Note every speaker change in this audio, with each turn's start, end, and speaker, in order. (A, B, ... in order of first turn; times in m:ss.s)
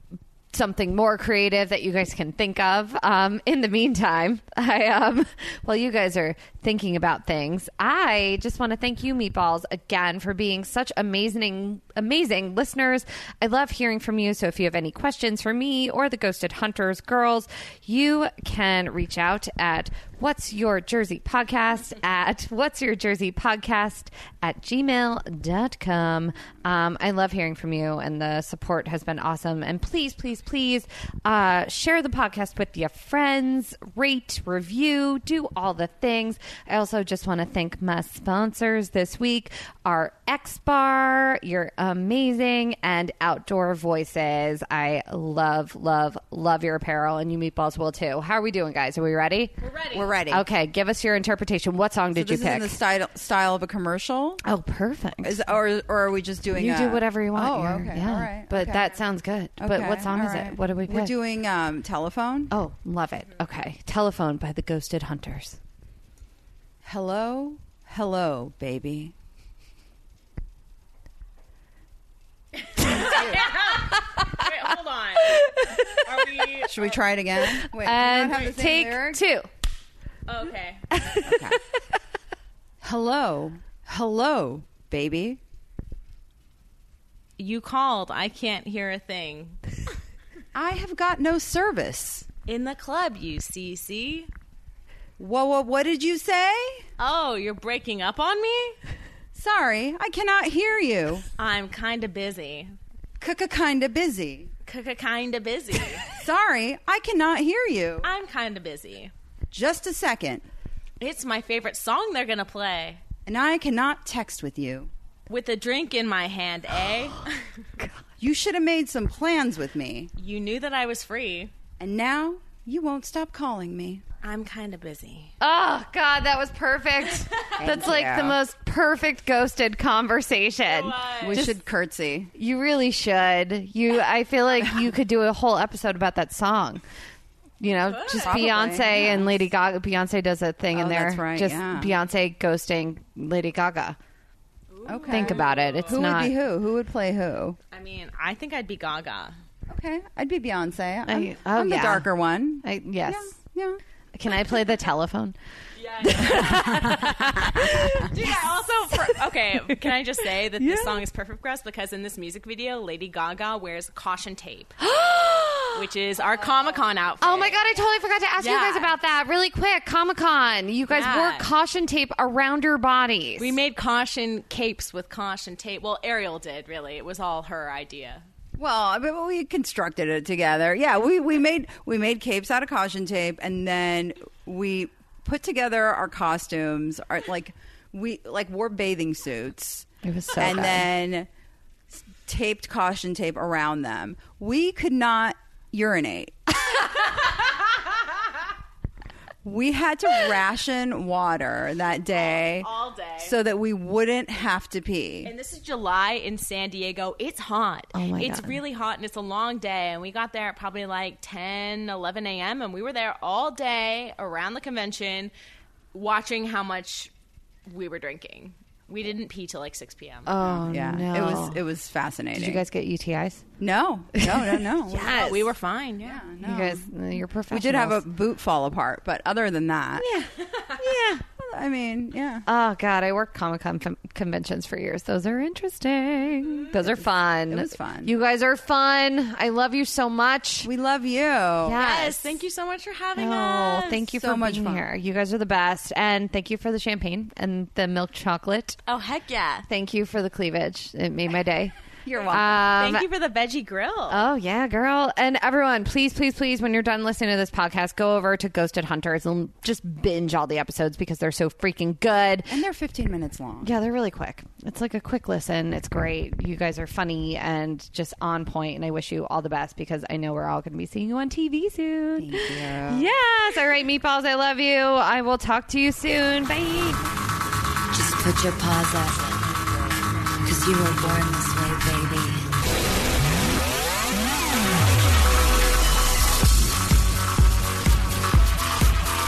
0:00.5-0:49.5 A
0:49.6-0:50.2 B
0:49.9-0:50.4 C
0:50.3-0:52.8 A
0:52.1-0:54.4 C
0:54.4-0:55.4 A
0:55.2-0:59.0 C
0:56.6-1:01.1 A
0:59.6-1:02.5 C
1:02.5-1:05.6 A
1:06.8-1:09.1 C
1:12.6-1:17.0 B
1:13.0-1:13.5 C
1:14.1-1:14.4 A
1:15.2-1:16.6 A
1:16.7-1:19.2 C
1:17.6-1:19.5 A
1:20.3-1:21.0 B
1:20.9-1:21.8 A
1:21.2-1:21.6 C
1:22.8-1:25.4 C
1:27.4-1:29.6 B
1:30.6-1:32.3 C
1:32.5-1:34.3 B
1:35.2-1:36.8 C
1:37.0-1:38.8 B
1:39.4-1:41.2 C
1:41.4-1:42.8 B
1:43.2-1:44.5 C
1:44.7-1:46.1 B
1:46.1-1:48.1 C
1:48.0-1:49.1 B
1:49.5-1:50.5 C
1:51.0-1:53.0 B
1:53.2-1:54.9 C
1:55.3-1:57.4 B
1:58.2-2:00.1 C
2:00.2-2:01.5 B
2:01.8-2:04.0 C
2:04.2-2:05.3 B
2:05.4-2:11.6 A
2:07.6-2:08.4 C
2:10.7-2:11.5 B
2:11.2-2:12.3 C
2:12.4-2:16.8 A
2:17.6-2:24.0 A
2:17.9-2:18.7 B
2:18.2-2:19.4 C
2:20.7-2:21.9 C
2:24.7-2:26.0 B
2:24.9-2:27.6 C
2:25.1-2:26.4 A
2:27.7-2:29.4 B
2:29.7-2:33.8 C
2:31.1-2:32.1 A
2:32.6-2:33.3 A
2:34.1-2:35.4 A
2:35.8-2:44.8 B
2:36.0-2:38.1 A
2:40.6-2:41.0 A
2:44.8-2:45.8 A
2:45.7-2:47.7 B
2:47.2-2:53.5 A
2:48.4-2:48.9 B
2:50.9-2:51.5 B
2:53.4-2:58.2 B
2:58.6-3:11.3 C
3:10.0-3:10.9 A
3:11.9-3:16.6 C
3:19.4-3:22.7 C
3:22.1-3:23.4 B
3:23.2-3:25.3 C
3:25.2-3:35.3 B
3:27.9-3:28.6 A
3:35.9-3:37.1 B
3:37.7-3:40.3 B
3:40.3-3:41.6 A
3:40.4-3:42.6 C
3:42.4-3:43.4 A
3:43.6-3:45.5 C
3:44.2-3:45.4 A
3:44.9-3:46.3 B
3:46.0-3:46.8 C
3:46.4-3:48.0 A
3:47.5-3:50.2 C
3:50.0-3:51.2 A
3:51.3-3:52.4 C
3:52.5-4:00.7 A
3:57.5-3:58.1 C
4:00.6-4:01.8 C
4:01.6-4:02.4 A
4:01.8-4:04.0 B
4:03.2-4:08.8 A
4:04.1-4:04.9 C
4:08.9-4:09.7 B
4:09.7-4:11.7 A
4:12.0-4:12.6 C
4:12.3-4:13.1 A
4:12.7-4:14.2 B
4:14.1-4:22.5 A
4:22.5-4:23.7 C
4:23.6-4:37.0 A
4:32.2-4:33.1 C
4:37.9-4:42.6 D